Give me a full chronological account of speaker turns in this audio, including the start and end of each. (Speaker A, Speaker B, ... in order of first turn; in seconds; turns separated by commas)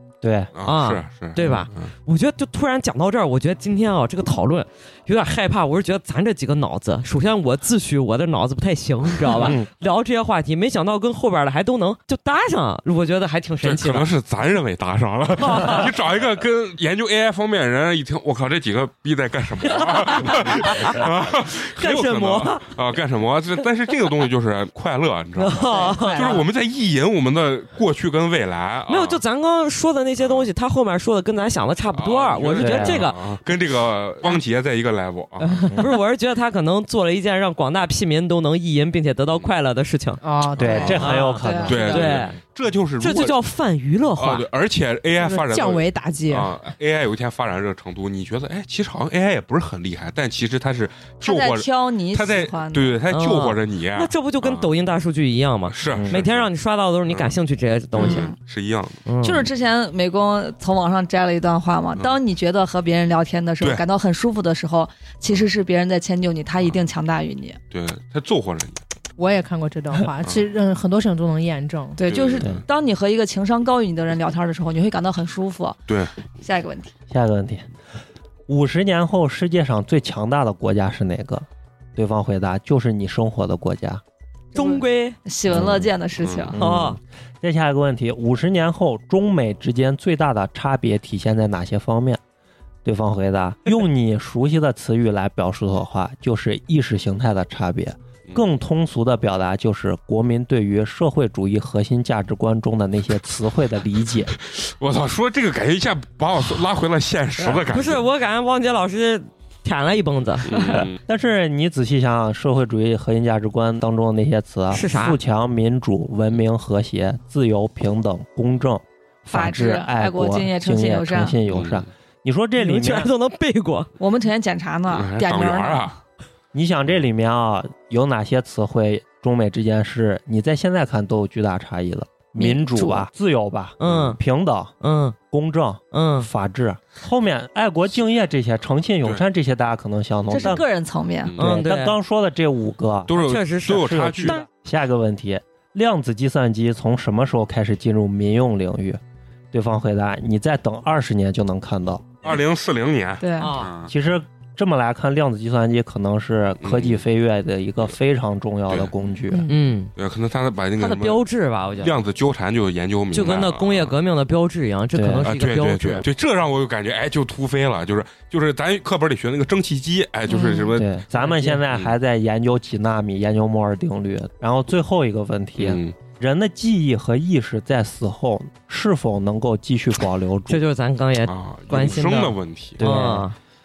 Speaker A: 0.2-0.5, Speaker B: 0.6-1.9, Speaker C: 0.6-14.1, Speaker A: 9.3-9.7, Speaker B: 13.6-29.2, Speaker C: 15.4-15.9, Speaker C: 19.7-21.1, Speaker C: 21.8-22.7, Speaker C: 25.4-26.4, Speaker D: 25.9-26.3, Speaker C: 28.9-33.2, Speaker B: 30.2-30.5, Speaker B: 31.9-35.7, Speaker A: 32.6-33.0, Speaker C: 35.8-40.2, Speaker D: 40.2-41.3, Speaker A: 40.6-42.1, Speaker B: 40.6-41.0, Speaker C: 40.8-42.4, Speaker E: 41.4-42.0, Speaker B: 41.6-43.4, Speaker C: 43.0-44.5, Speaker B: 44.2-54.7, Speaker D: 45.2-46.5, Speaker E: 51.2-53.0, Speaker C: 53.1-58.3, Speaker B: 55.7-56.5, Speaker A: 55.9-56.2, Speaker B: 58.0-59.0, Speaker E: 58.0-58.4, Speaker C: 59.1-59.5, Speaker E: 59.2-67.6, Speaker B: 67.7-68.8, Speaker D: 69.2-72.0, Speaker E: 72.0-75.8, Speaker B: 72.1-72.6, Speaker B: 75.9-76.2, Speaker E: 76.4-76.9, Speaker A: 77.1-77.7, Speaker A: 78.5-84.0, Speaker C: 84.5-85.2, Speaker E: 84.5-86.6, Speaker A: 85.5-85.9, Speaker B: 86.2-86.6, Speaker A: 86.5-92.2, Speaker C: 86.6-87.0, Speaker A: 92.8-104.3, Speaker B: 104.4-108.0, Speaker C: 107.7-110.5, Speaker B: 110.5-111.0, Speaker A: 110.7-123.1, Speaker C: 114.7-115.2, Speaker E: 119.3-121.4, Speaker B: 121.5-121.9, Speaker C: 122.6-123.9, Speaker E: 124.0-126.0, Speaker B: 124.9-126.0, Speaker A: 126.5-134.8, Speaker E: 132.4-133.1, Speaker C: 133.8-134.2, Speaker B: 133.8-134.1, Speaker C: 134.8-135.2, Speaker A: 135.3-140.6, Speaker C: 135.9-136.3, Speaker E: 140.3-141.3, Speaker B: 141.2-141.5, Speaker C: 141.4-142.0, Speaker A: 141.4-143.2, Speaker B: 143.1-144.4, Speaker C: 143.2-144.5, Speaker A: 143.8-149.0, Speaker A: 149.5-152.2, Speaker B: 152.2-153.9, Speaker E: 153.2-153.5, Speaker C: 153.4-153.7, Speaker A: 153.9-159.5, Speaker B: 156.6-157.0, Speaker D: 159.3-159.6, Speaker C: 159.5-159.9, Speaker B: 160.0-161.2, Speaker C: 160.8-161.9, Speaker B: 161.8-163.9, Speaker C: 163.1-166.1, Speaker A: 164.9-165.3, Speaker B: 165.2-170.9, Speaker E: 170.3-170.7, Speaker A: 170.8-180.6, Speaker C: 171.1-171.6, Speaker B: 175.6-175.9, Speaker C: 180.5-183.3, Speaker B: 181.3-182.8, Speaker A: 182.8-183.3